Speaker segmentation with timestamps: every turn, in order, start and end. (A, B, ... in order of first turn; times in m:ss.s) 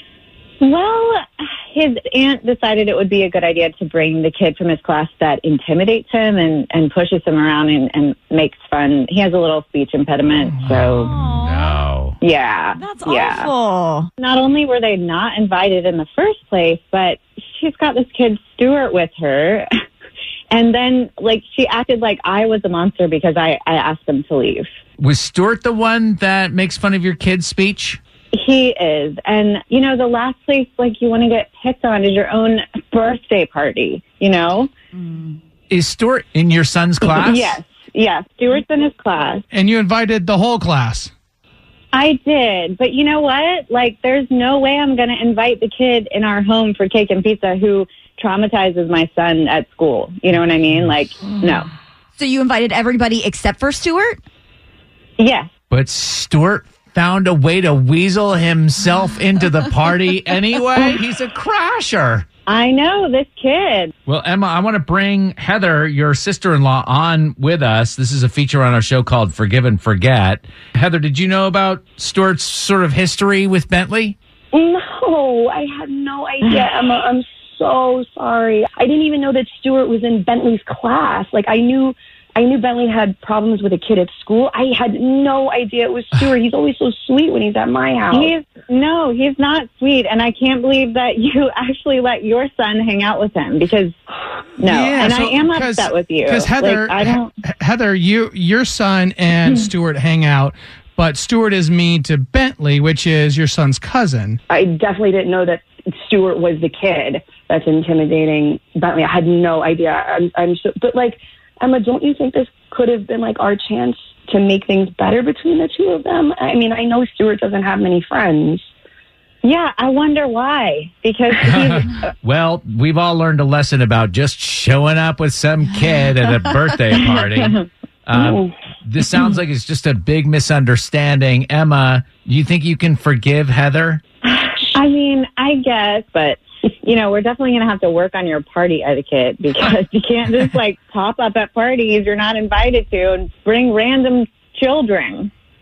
0:00.6-0:11.1 A
0:10.7-0:12.2 B
0:10.8-0:11.9 C
0:12.2-0:13.5 A
0:12.8-0:14.1 C
0:14.2-0:19.7 A
0:20.5-0:24.7 A
0:25.0-0:28.0 B
0:28.3-0:34.7 A
0:35.0-0:35.3 C
0:35.7-0:37.6 B
0:37.0-0:39.4 A
0:39.5-0:41.1 D
0:41.9-0:51.7 A
0:52.2-0:54.2 C
0:55.2-0:55.5 A
0:55.7-1:02.3 B
1:02.5-1:03.9 A
1:04.1-1:14.2 B
1:14.5-1:28.3 E
1:28.1-1:34.0 A
1:34.6-1:37.3 A
1:34.7-1:44.4 D
1:44.5-1:58.6 E
1:59.4-2:02.1 A
2:01.4-2:14.0 B
2:06.9-2:07.7 A
2:08.1-2:08.5 E
2:14.3-2:25.3 A